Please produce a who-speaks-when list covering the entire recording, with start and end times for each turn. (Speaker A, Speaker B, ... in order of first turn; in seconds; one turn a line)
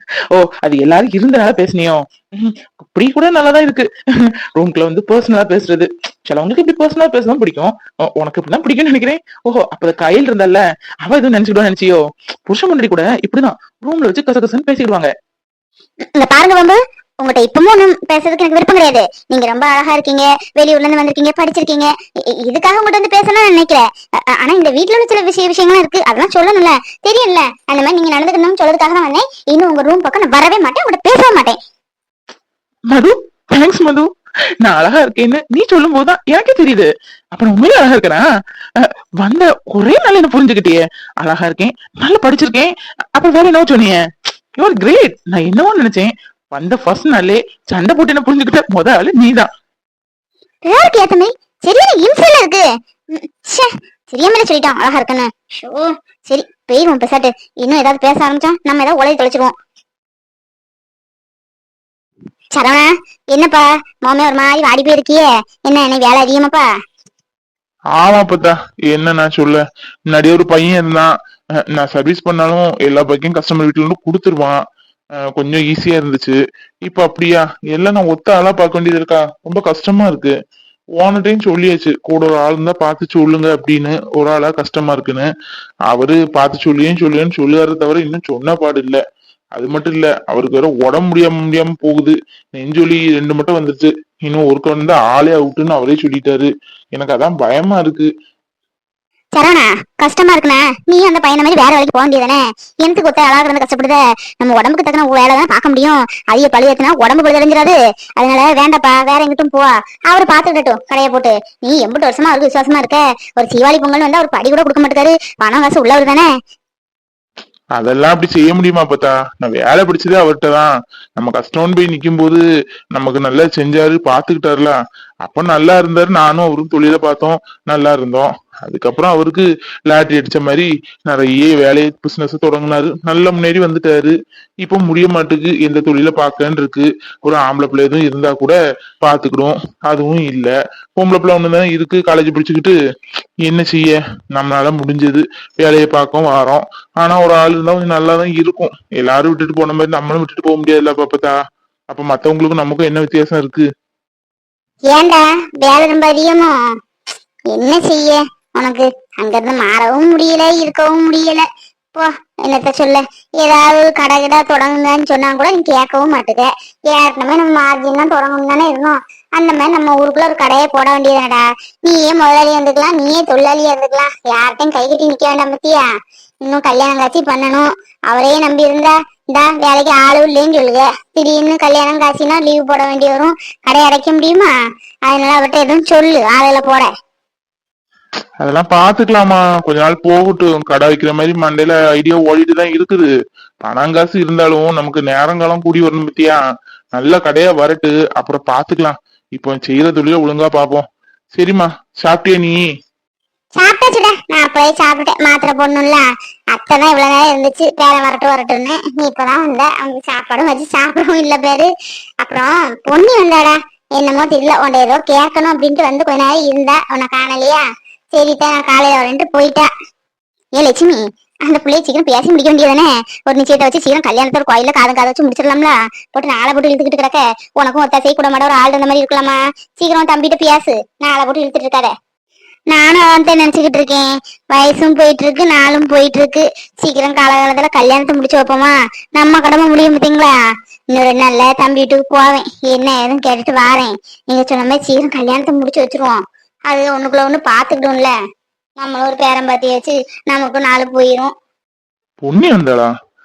Speaker A: 0.3-15.1
Speaker B: 16.1-21.9
Speaker B: 22.4-31.6
Speaker A: 32.9-34.1
Speaker A: 34.6-38.2
Speaker A: 38.8-44.0
Speaker A: 44.6-49.5
Speaker B: 50.6-59.5
Speaker B: 62.5-66.7
Speaker C: 68.0-71.1
Speaker C: 71.7-74.6
Speaker C: 75.3-80.3
Speaker C: 81.0-85.3
Speaker C: 85.9-89.0
Speaker C: 89.5-98.1
Speaker B: 99.3-116.2
Speaker C: 117.8-122.4
Speaker C: 122.9-142.7
Speaker C: 143.4-151.3
Speaker C: 151.9-153.7
Speaker B: 154.9-156.5
Speaker B: 157.5-175.8
Speaker B: 176.4-184.5
Speaker B: 185.1-186.9
Speaker C: 188.4-193.1
Speaker C: 193.6-196.4
Speaker C: 196.9-200.8
Speaker C: 201.3-202.6
Speaker B: 203.6-211.7
Speaker B: 212.2-217.6
Speaker B: 218.1-219.7
Speaker B: 220.6-231.9
Speaker B: 232.7-240.3
Speaker B: 240.9-246.2
Speaker B: 246.7-248.1
Speaker B: 248.8-251.3
Speaker C: 252.2-252.9